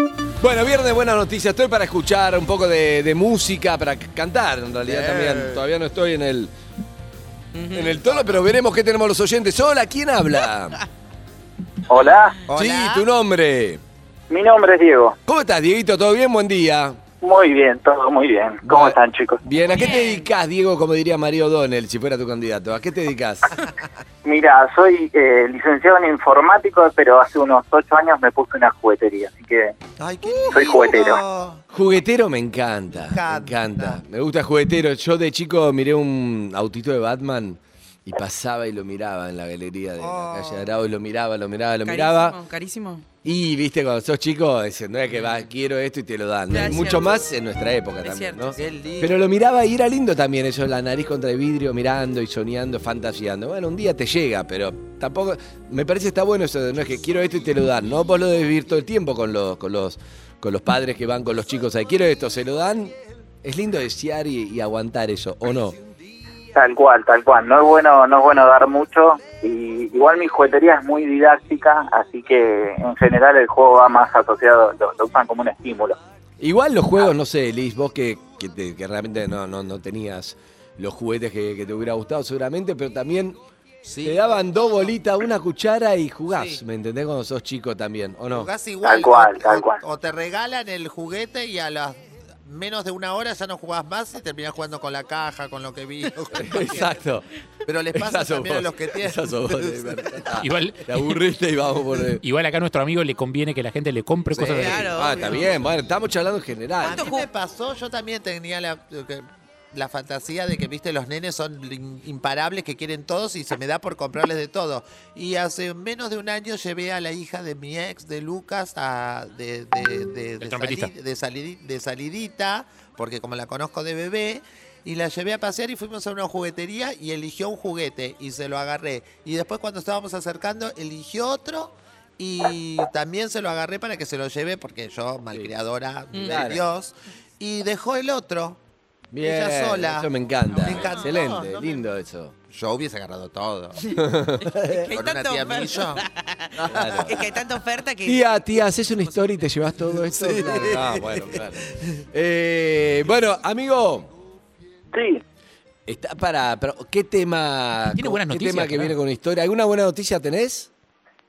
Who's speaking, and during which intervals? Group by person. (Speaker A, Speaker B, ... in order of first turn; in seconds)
Speaker A: 0.4-6.5, 7.7-10.8, 12.5-13.8, 15.3-17.0, 18.6-23.5, 31.7-42.4, 43.2-65.8, 76.4-83.4, 84.0-88.5, 96.3-97.3, 97.9-102.2, 104.4-107.1, 136.2-136.7, 139.1-142.3, 143.9-144.9, 146.6-147.3, 148.0-154.1, 155.9-160.7
Speaker B: 4.9-5.6, 12.5-13.1, 30.0-31.6, 33.0-34.0, 40.0-40.7, 48.6-49.2, 83.8-84.9, 88.3-97.0, 97.7-100.3, 104.3-105.5, 106.8-138.6, 139.2-141.8, 142.5-143.9, 144.9-146.0, 146.6-147.4, 150.1-151.4
Speaker C: 7.5-8.0, 19.6-20.3, 41.8-43.1, 46.5-47.3, 48.0-48.6, 104.5-105.5, 106.9-107.3, 136.1-136.5, 143.8-149.5
Speaker D: 11.9-12.4, 14.3-15.2, 17.2-19.4, 24.2-29.8, 30.5-31.2, 66.5-76.0, 88.8-89.8, 154.9-155.2
Speaker E: 100.4-101.2, 102.2-105.0, 120.4-120.9, 158.0-158.9